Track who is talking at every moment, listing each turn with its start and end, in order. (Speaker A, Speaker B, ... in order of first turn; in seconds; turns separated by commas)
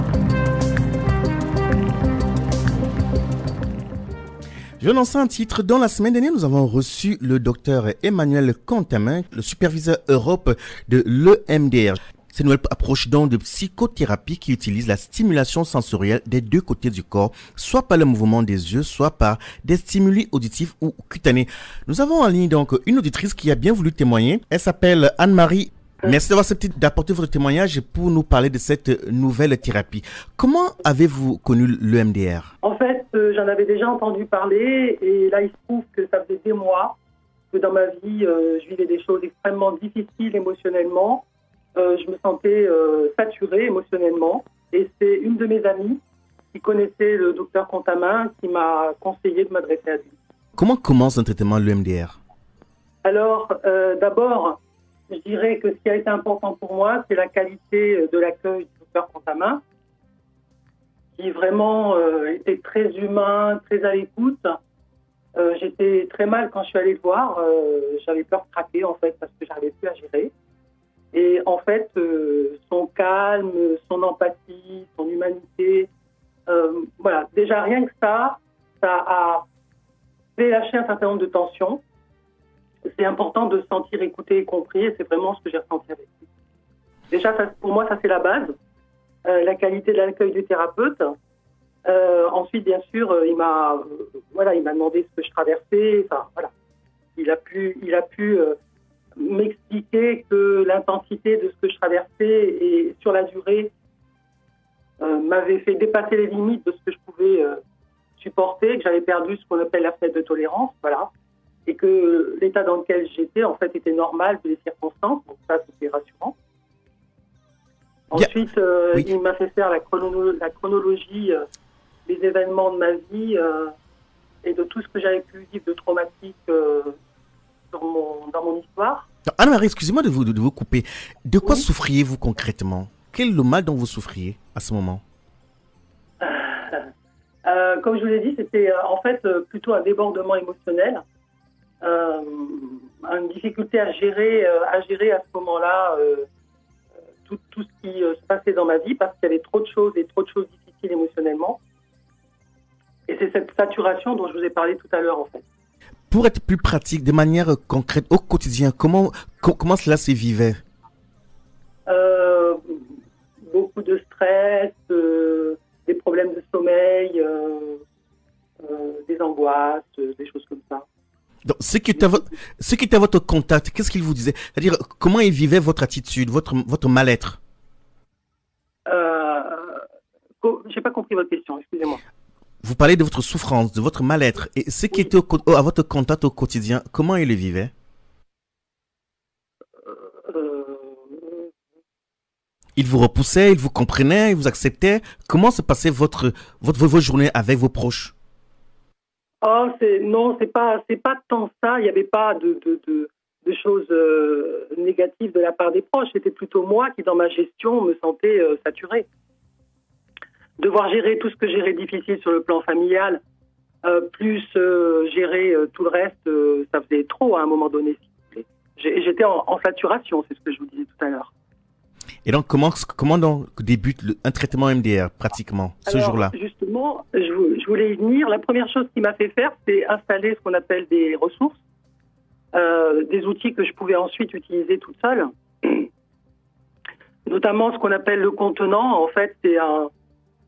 Speaker A: 4.8-32.5, Speaker B: 32.6-37.0, Speaker B: 37.5-46.0, Speaker B: 46.5-50.1, Speaker A: 50.5-52.2, Speaker B: 53.0-54.6, Speaker B: 55.1-59.6, Speaker B: 61.2-64.6, Speaker B: 65.3-70.3, Speaker B: 71.1-75.9, Speaker B: 76.5-79.5, Speaker B: 80.4-81.8, Speaker B: 82.9-86.2, Speaker B: 87.1-88.5, Speaker B: 89.2-91.1, Speaker B: 91.8-96.5, Speaker B: 97.2-98.6, Speaker B: 99.2-103.7, Speaker B: 105.0-107.6, Speaker B: 108.2-111.1, Speaker B: 111.7-116.3, Speaker B: 118.1-121.4, Speaker B: 122.0-123.7, Speaker B: 124.4-127.0, Speaker B: 127.7-129.1, Speaker A: 129.3-135.0, Speaker B: 136.2-136.9, Speaker B: 137.4-141.0, Speaker B: 141.8-146.3, Speaker B: 147.2-151.6, Speaker B: 153.1-155.4, Speaker A: 156.1-160.6, Speaker B: 161.9-162.8, Speaker B: 163.4-167.8, Speaker B: 168.6-170.8, Speaker A: 171.4-177.4, Speaker B: 178.8-179.8, Speaker B: 180.4-182.0, Speaker A: 182.6-187.7, Speaker B: 189.8-191.5, Speaker A: 192.8-198.1, Speaker B: 199.4-209.1, Speaker B: 210.6-213.2, Speaker B: 213.8-221.3, Speaker A: 222.2-226.3, Speaker B: 225.8-231.6, Speaker B: 232.5-235.9, Speaker B: 237.2-239.9